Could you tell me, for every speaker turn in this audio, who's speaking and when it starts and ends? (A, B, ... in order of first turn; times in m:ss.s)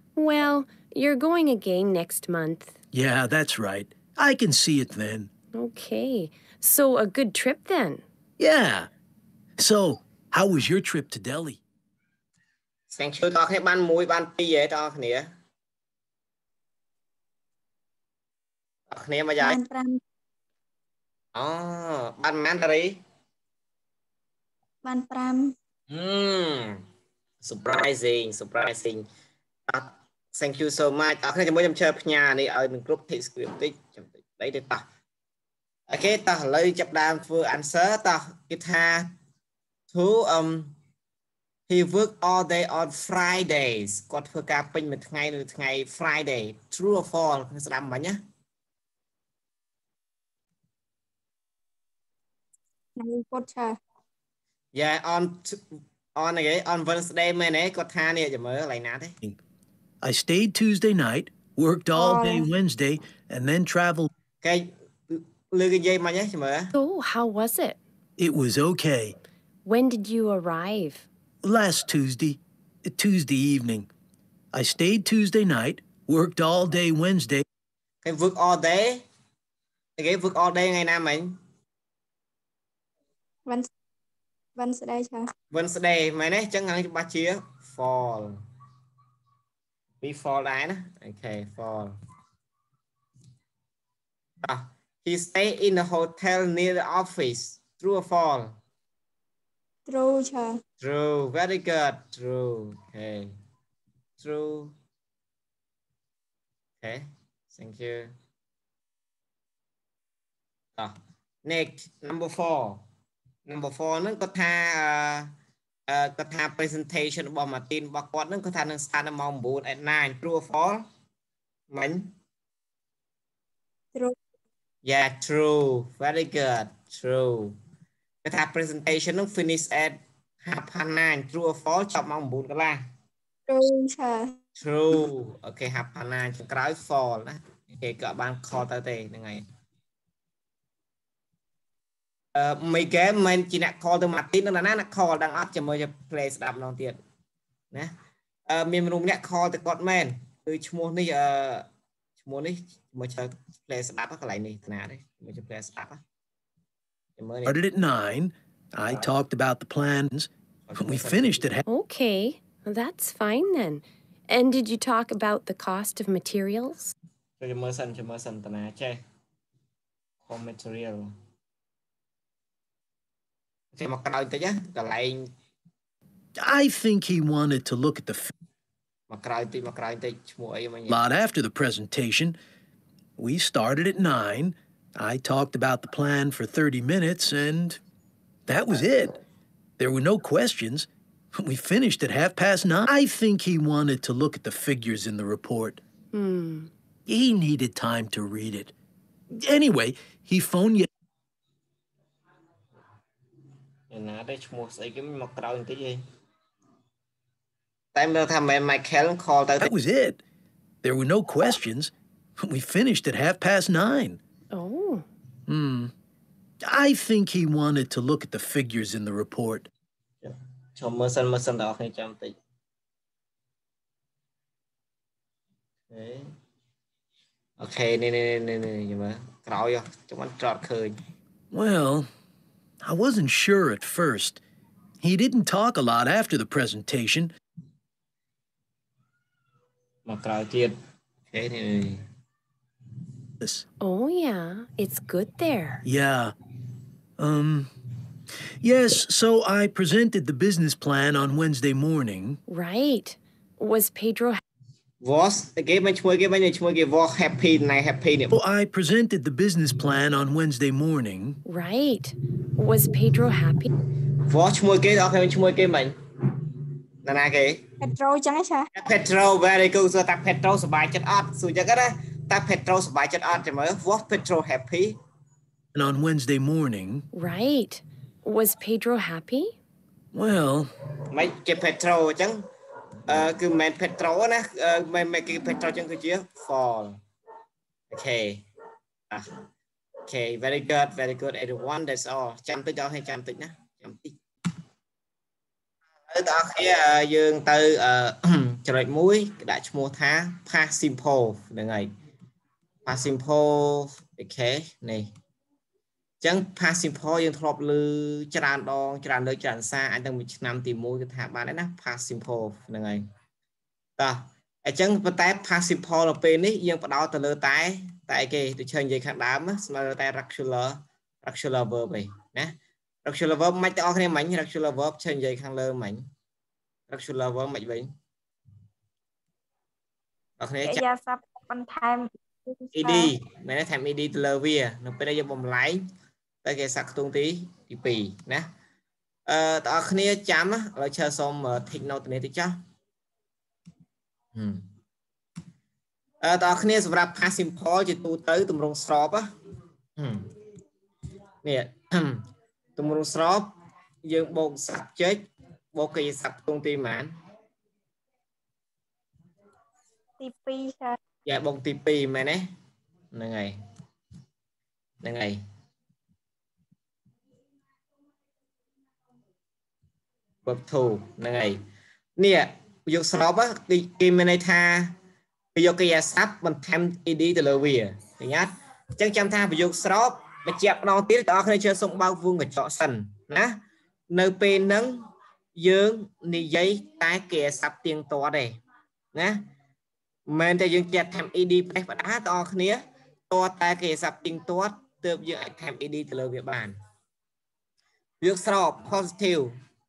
0:00.2-0:02.8 A
0:02.9-0:05.3 B
0:05.5-0:08.0 A
0:08.4-0:08.9 B
0:09.6-0:11.6 B
0:12.9-0:15.3 C
0:18.9-0:19.6 C
0:19.4-0:20.0 D
0:21.3-0:23.0 C
0:24.8-0:25.5 D
0:25.9-0:26.8 C
0:27.4-0:29.0 C
0:29.7-0:34.8 C
0:35.9-0:39.1 C
0:39.9-0:40.7 C
0:41.7-0:48.2 C
0:53.0-0:53.8 D
0:54.7-0:55.6 C
0:56.2-0:59.2 C
1:00.0-1:04.1 B
1:02.0-1:02.5 D
1:04.4-1:06.7 C
1:06.7-1:07.8 A
1:08.2-1:09.1 B
1:09.6-1:11.0 A
1:11.4-1:13.9 B
1:14.5-1:17.4 B
1:18.0-1:19.0 C
1:20.0-1:21.4 C
1:24.6-1:25.3 D
1:25.5-1:28.4 C
1:30.0-1:31.9 C
1:34.4-1:38.6 C
1:39.9-1:40.6 D
1:40.8-1:43.3 C
1:44.2-1:44.7 C
1:46.8-1:48.1 C
1:51.4-1:52.8 C
1:53.4-1:55.3 C
1:55.9-2:00.8 C
2:01.7-2:02.1 C
2:04.8-2:07.5 C
2:08.2-2:12.8 C
2:13.5-2:14.4 D
2:14.6-2:19.4 C
2:22.3-2:27.0 C
2:28.5-2:31.6 C
2:32.2-2:36.0 C
2:37.2-2:37.6 C
2:37.4-2:41.6 B
2:40.7-2:41.4 C
2:41.6-2:46.9 A
2:47.4-2:49.0 C
2:50.2-2:51.1 C
2:53.7-2:55.3 C
2:56.4-2:58.3 B
2:59.1-3:01.0 C
3:00.9-3:02.4 B
3:03.2-3:07.8 B
3:08.4-3:09.2 B
3:09.8-3:15.8 B
3:16.1-3:16.7 A
3:17.1-3:18.7 B
3:19.3-3:20.9 B
3:23.9-3:26.0 C
3:27.9-3:29.7 C
3:29.6-3:30.2 B
3:30.8-3:34.2 B
3:34.5-3:35.0 A
3:35.5-3:35.9 B
3:36.6-3:39.7 B
3:40.2-3:42.4 C
3:45.9-3:46.3 C
3:47.6-3:51.0 C
3:51.5-3:52.1 B
3:52.8-3:54.4 B
3:55.0-3:57.3 B
4:00.0-4:00.7 C
4:01.3-4:02.0 C
4:03.8-4:05.8 A
4:05.8-4:06.3 B
4:07.2-4:07.7 B
4:08.6-4:12.4 B
4:12.5-4:14.4 A
4:15.0-4:18.3 C
4:18.3-4:21.4 B
4:21.4-4:23.7 A
4:24.3-4:26.0 C
4:27.0-4:27.6 C
4:27.8-4:28.7 D
4:28.7-4:35.0 C
4:35.7-4:37.0 B
4:37.1-4:39.6 A
4:40.1-4:40.7 B
4:41.1-4:42.4 C
4:43.1-4:47.0 C
4:47.9-4:48.4 C
4:49.1-4:49.4 C
4:50.1-4:54.2 C
4:56.1-5:01.9 C
5:02.8-5:05.1 C
5:06.2-5:13.0 C
5:14.0-5:26.0 C
5:26.9-5:27.9 C
5:30.4-5:30.8 C
5:30.6-5:33.1 D
5:32.7-5:35.8 C
5:36.4-5:38.5 C
5:39.3-5:42.6 C
5:44.3-5:44.7 C
5:46.2-5:49.3 C
5:50.0-5:50.3 C
5:51.4-5:52.2 C
5:52.8-5:53.5 C
5:54.0-5:55.2 C
5:55.7-5:57.1 C
6:00.2-6:01.0 D
6:01.2-6:02.5 C
6:03.1-6:03.6 C
6:05.0-6:05.4 C
6:10.4-6:11.6 C
6:12.2-6:14.9 C
6:15.5-6:23.6 C
6:24.1-6:25.0 C
6:25.6-6:28.6 C
6:29.1-6:29.4 C
6:30.3-6:36.8 C
6:38.2-6:39.5 C